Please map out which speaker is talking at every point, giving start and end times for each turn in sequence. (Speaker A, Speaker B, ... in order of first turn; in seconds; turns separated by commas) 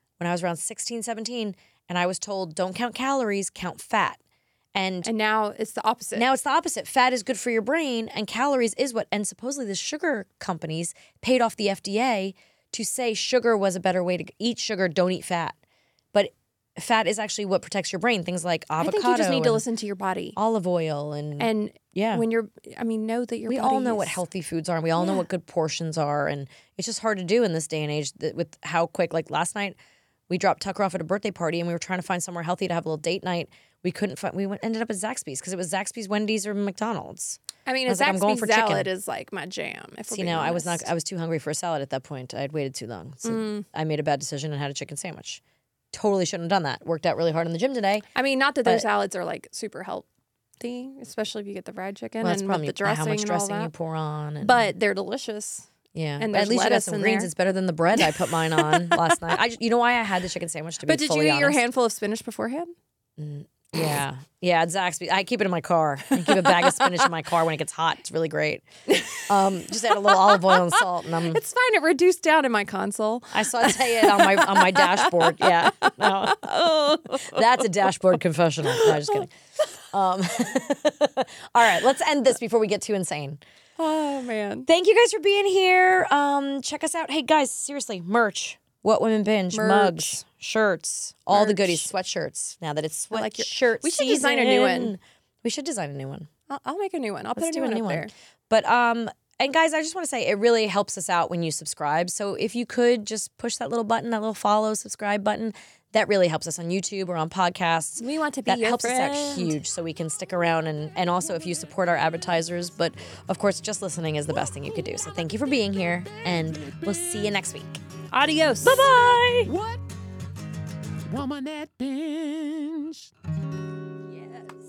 Speaker A: 0.2-4.2, Speaker A: 4.8-5.1, Speaker B: 5.0-6.3, Speaker A: 6.2-15.6, Speaker A: 16.1-19.6, Speaker B: 18.8-20.4, Speaker A: 20.4-22.2, Speaker B: 21.4-24.2, Speaker A: 23.5-29.8, Speaker B: 25.0-25.2, Speaker A: 30.3-38.9, Speaker B: 37.7-40.9, Speaker A: 40.1-45.4, Speaker B: 43.2-43.7, Speaker A: 45.9-48.1, Speaker B: 48.1-50.1, Speaker B: 50.6-53.7, Speaker A: 52.2-54.7, Speaker B: 54.4-57.3, Speaker A: 55.9-61.6, Speaker B: 58.0-59.1, Speaker B: 60.9-62.7, Speaker A: 63.2-71.4, Speaker B: 68.9-77.7, Speaker A: 73.3-76.5, Speaker A: 77.1-79.3, Speaker B: 78.6-79.2, Speaker A: 79.9-83.4, Speaker B: 83.8-84.7, Speaker A: 84.7-96.3, Speaker B: 89.5-90.2, Speaker B: 91.3-91.9, Speaker B: 93.1-95.0, Speaker B: 96.5-98.1, Speaker A: 97.4-117.8, Speaker B: 108.0-109.6, Speaker C: 116.4-117.2, Speaker B: 118.1-119.0, Speaker A: 118.6-119.5, Speaker C: 119.4-119.8, Speaker C: 121.1-123.1